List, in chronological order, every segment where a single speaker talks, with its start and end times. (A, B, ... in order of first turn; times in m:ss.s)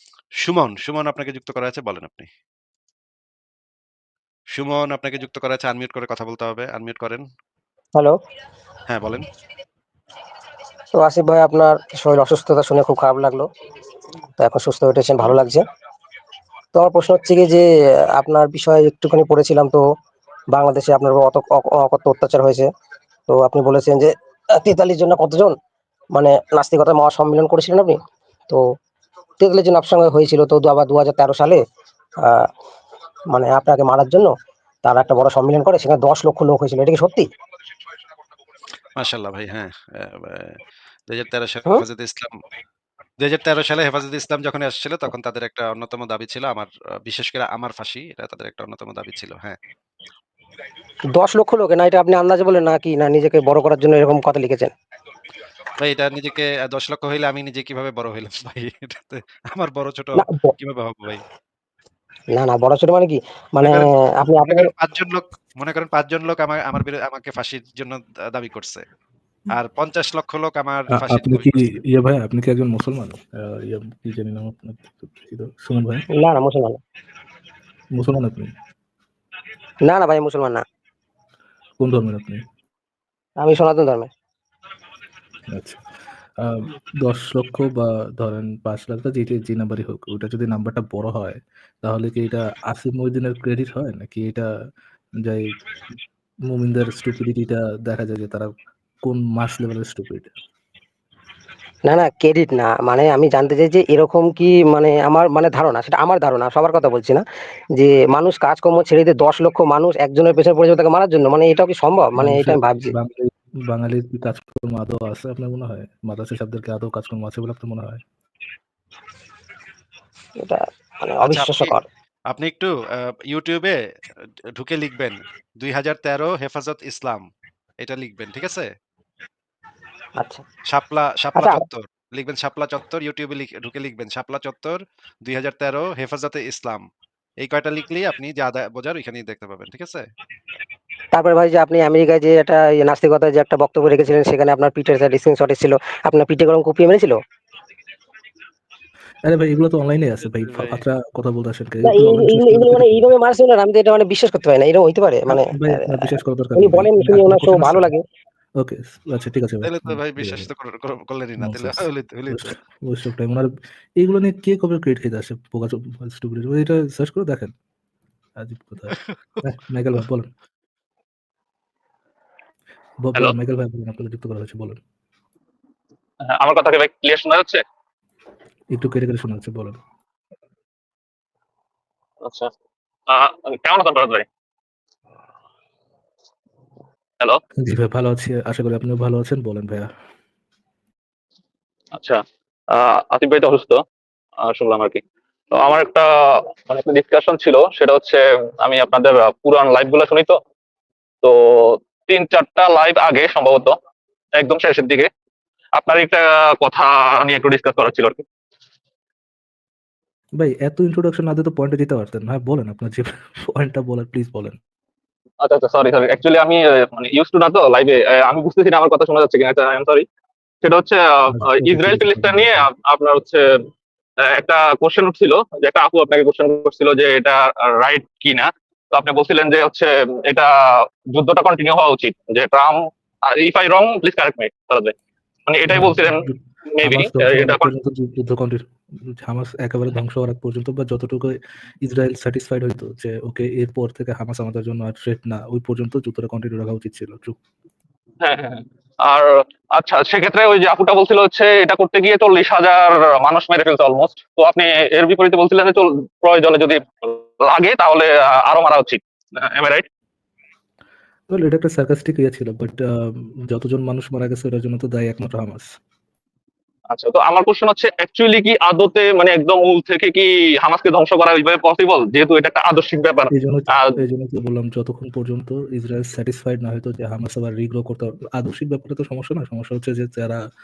0:00.4-0:02.3 A
0:04.5-0:07.2 A
0:08.9-0:09.3 A
0:11.0-0:13.5 B
0:14.4-0:15.6 B
0:16.8-0:19.9 B
0:20.5-0:22.7 B
0:23.3-0:25.6 B
0:26.1-0:28.6 B
0:29.4-0:31.6 B
0:32.2-0:32.5 B
0:33.3-0:34.3 B
0:34.8-0:37.3 B
0:39.0-0:40.6 A
0:41.1-0:42.4 A
0:43.2-0:49.6 A
0:51.1-0:54.7 B
0:55.8-1:01.2 A
1:00.2-1:00.5 B
1:02.3-1:04.7 B
1:03.6-1:08.8 A
1:09.5-1:11.6 A
1:10.9-1:16.0 C
1:16.1-1:16.8 B
1:18.0-1:18.5 C
1:19.8-1:20.6 B
1:21.8-1:22.4 C
1:23.4-1:24.1 B
1:25.5-1:25.8 C
1:26.4-1:34.5 C
1:35.2-1:35.5 C
1:36.5-1:38.5 C
1:39.0-1:40.3 C
1:41.9-1:47.2 B
1:47.8-1:53.0 B
1:52.2-1:58.0 C
2:00.4-2:01.8 B
2:01.2-2:01.8 A
2:02.3-2:03.8 A
2:04.5-2:07.2 A
2:07.8-2:08.7 A
2:10.2-2:10.4 B
2:10.7-2:16.8 A
2:17.4-2:20.1 A
2:21.1-2:27.2 B
2:29.2-2:33.1 C
2:30.5-2:30.8 A
2:31.8-2:38.0 B
2:35.3-2:37.9 C
2:38.6-2:40.5 C
2:39.6-2:42.4 A
2:41.4-2:47.5 C
2:48.4-2:50.3 C
2:48.9-2:49.4 A
2:53.0-2:54.8 C
2:56.3-2:57.6 D
2:58.7-2:59.8 C
3:02.2-3:02.5 D
3:03.1-3:04.3 D
3:07.6-3:09.9 C
3:12.0-3:13.8 D
3:14.4-3:20.4 D
3:21.2-3:23.8 D
3:24.4-3:25.1 D
3:25.8-3:28.2 D
3:30.4-3:34.6 C
3:35.4-3:40.1 D
3:40.6-3:43.6 D
3:41.3-3:42.7 C
3:44.2-3:55.0 D
3:55.5-3:57.7 D
3:55.7-4:07.4 C
4:08.2-4:19.9 D
4:21.3-4:25.7 C
4:26.9-4:34.0 D
4:33.3-4:40.4 C